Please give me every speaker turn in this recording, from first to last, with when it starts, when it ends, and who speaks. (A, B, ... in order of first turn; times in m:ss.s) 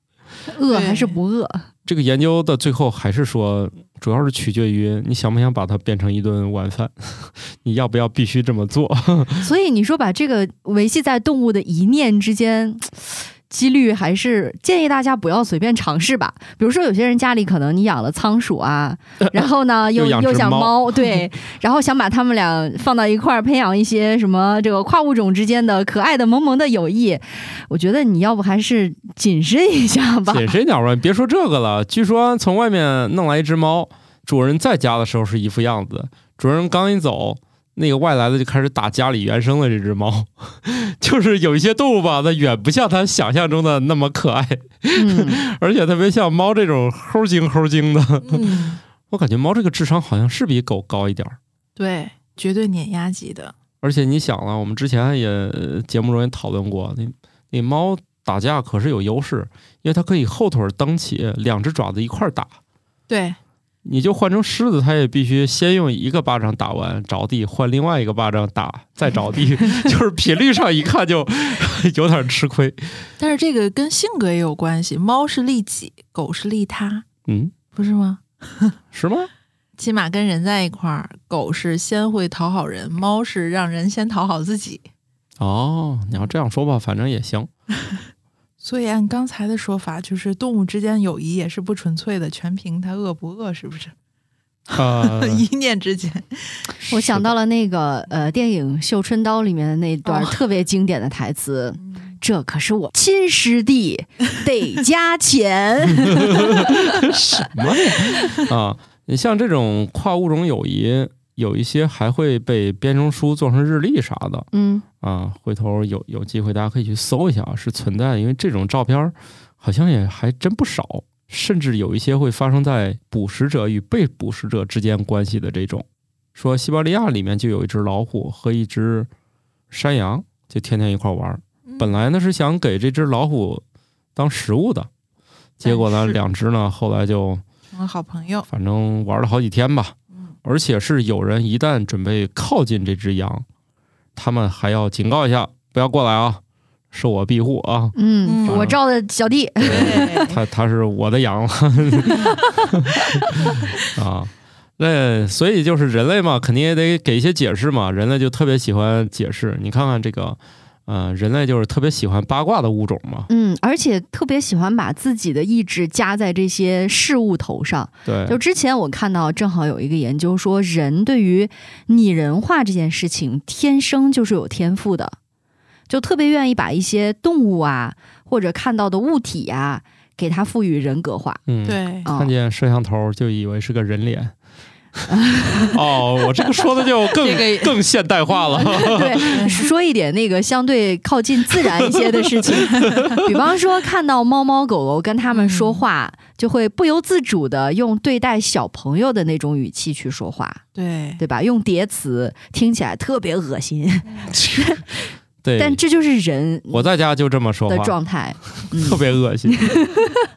0:00.5-0:01.7 A
0:00.7-0:01.2 B
0:01.9-0:09.5 C
0:09.4-0:30.5 A
0:19.2-0:21.2 C
0:30.3-0:51.4 C
0:45.0-0:45.4 A
0:48.2-0:48.8 B
0:51.8-0:53.5 B
0:53.8-1:02.5 C
1:03.1-1:03.4 B
1:03.8-1:13.1 C
1:13.2-1:17.0 B
1:17.3-1:17.6 C
1:17.7-1:18.8 B
1:18.9-1:19.3 C
1:19.8-1:24.8 B
1:25.4-1:27.5 C
1:28.6-1:33.9 B
1:34.7-1:36.6 B
1:34.7-1:35.5 C
1:36.8-1:37.3 C
1:36.9-1:47.2 A
1:40.0-1:40.4 B
1:46.2-1:54.5 C
1:54.5-1:54.8 A
1:55.0-2:09.1 C
2:09.7-2:13.6 C
2:11.7-2:11.9 B
2:14.2-2:14.9 C
2:15.6-2:17.4 C
2:15.6-2:16.2 B
2:17.7-2:18.5 B
2:18.5-2:23.4 C
2:24.2-2:28.8 C
2:28.0-2:30.2 A
2:28.2-2:28.7 B
2:29.6-2:43.3 C
2:29.6-2:30.4 B
2:43.3-2:55.2 A
2:48.1-2:48.4 C
2:55.9-3:01.4 A
3:01.5-3:04.4 C
3:01.7-3:02.1 B
3:02.0-3:02.3 A
3:05.1-3:05.8 A
3:05.7-3:09.6 C
3:07.2-3:07.8 B
3:08.6-3:20.6 A
3:09.3-3:09.6 B
3:12.0-3:13.3 C
3:15.3-3:15.8 B
3:20.8-3:21.2 B
3:21.2-3:26.9 A
3:24.1-3:24.3 B
3:24.4-3:24.7 C
3:25.4-3:25.8 C
3:26.7-3:28.0 C
3:27.7-3:30.3 A
3:28.6-3:29.7 C